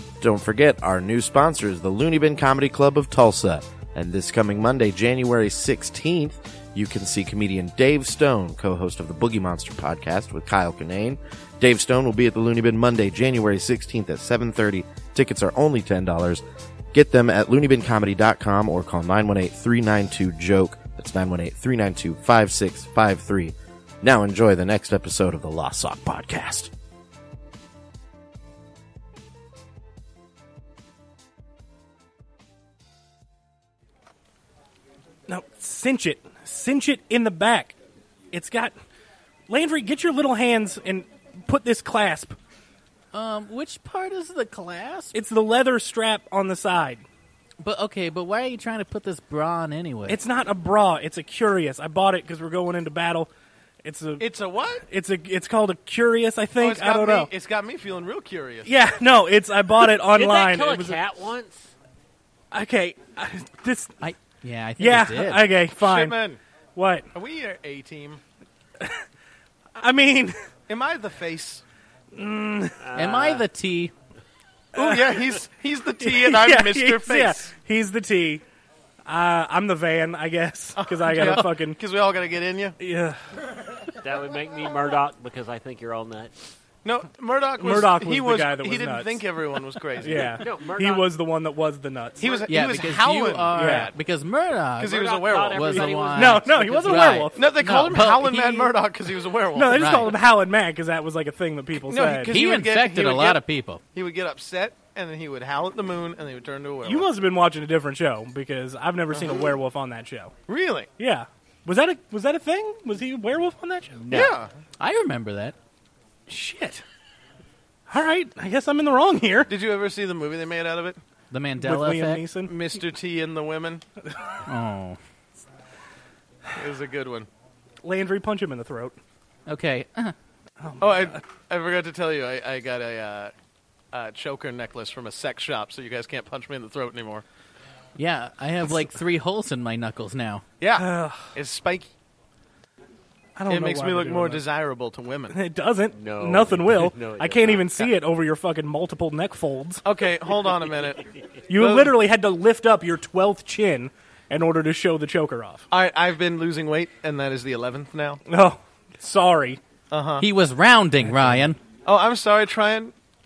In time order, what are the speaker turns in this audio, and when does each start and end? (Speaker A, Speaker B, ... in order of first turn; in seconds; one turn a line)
Speaker A: 0.2-26.7
Speaker B: 35.3-37.8
Speaker B: 38.3-38.8
Speaker B: 39.5-42.4
Speaker C: 43.1-45.1
Speaker B: 45.1-47.0
Speaker C: 47.6-50.2
Speaker B: 50.1-53.3
Speaker B: 53.8-57.3
Speaker D: 54.2-54.8
Speaker D: 56.6-58.7
Speaker B: 58.6-61.0
Speaker E: 60.1-61.7
Speaker B: 62.5-64.0
Speaker C: 64.0-65.5
Speaker B: 64.8-66.2
Speaker D: 65.8-66.4
Speaker B: 66.7-67.1
Speaker D: 67.1-68.2
Speaker B: 69.8-70.4
Speaker D: 70.7-71.6
Speaker B: 72.1-72.8
Speaker E: 72.8-73.4
Speaker C: 73.0-73.9
Speaker B: 74.7-75.3
Speaker D: 74.8-77.5
Speaker B: 76.0-78.4
Speaker B: 79.0-81.8
Speaker D: 80.8-82.8
Speaker B: 82.8-83.2
Speaker E: 84.0-86.3
Speaker D: 86.8-90.4
Speaker B: 87.6-89.3
Speaker B: 90.0-92.4
Speaker E: 90.1-91.1
Speaker D: 92.2-94.0
Speaker C: 92.5-98.7
Speaker B: 93.5-93.9
Speaker D: 94.8-95.9
Speaker E: 94.9-97.2
Speaker B: 95.7-97.4
Speaker D: 97.3-100.0
Speaker B: 99.5-102.3
Speaker C: 99.7-100.1
Speaker D: 101.8-107.1
Speaker C: 102.3-103.8
Speaker B: 106.8-110.3
Speaker D: 109.1-109.5
Speaker D: 110.5-110.9
Speaker B: 111.0-114.0
Speaker E: 114.0-114.3
Speaker D: 114.1-114.5
Speaker C: 114.8-115.5
Speaker B: 116.3-116.8
Speaker B: 117.9-119.5
Speaker D: 119.5-121.0
Speaker C: 121.3-122.3
Speaker B: 121.6-122.5
Speaker D: 122.5-123.8
Speaker C: 124.5-125.0
Speaker D: 126.5-127.3
Speaker B: 127.8-129.0
Speaker C: 129.5-130.1
Speaker B: 130.6-131.2
Speaker D: 130.8-133.3
Speaker D: 133.9-137.2
Speaker C: 138.0-140.4
Speaker D: 140.6-141.9
Speaker B: 140.8-141.3
Speaker B: 143.4-144.4
Speaker D: 143.5-145.4
Speaker B: 145.3-149.8
Speaker E: 145.9-147.9
Speaker D: 149.8-152.0
Speaker E: 150.5-150.9
Speaker B: 151.5-155.7
Speaker D: 155.7-158.2
Speaker B: 158.3-159.6
Speaker D: 159.9-160.3
Speaker C: 160.2-161.6
Speaker D: 161.8-162.9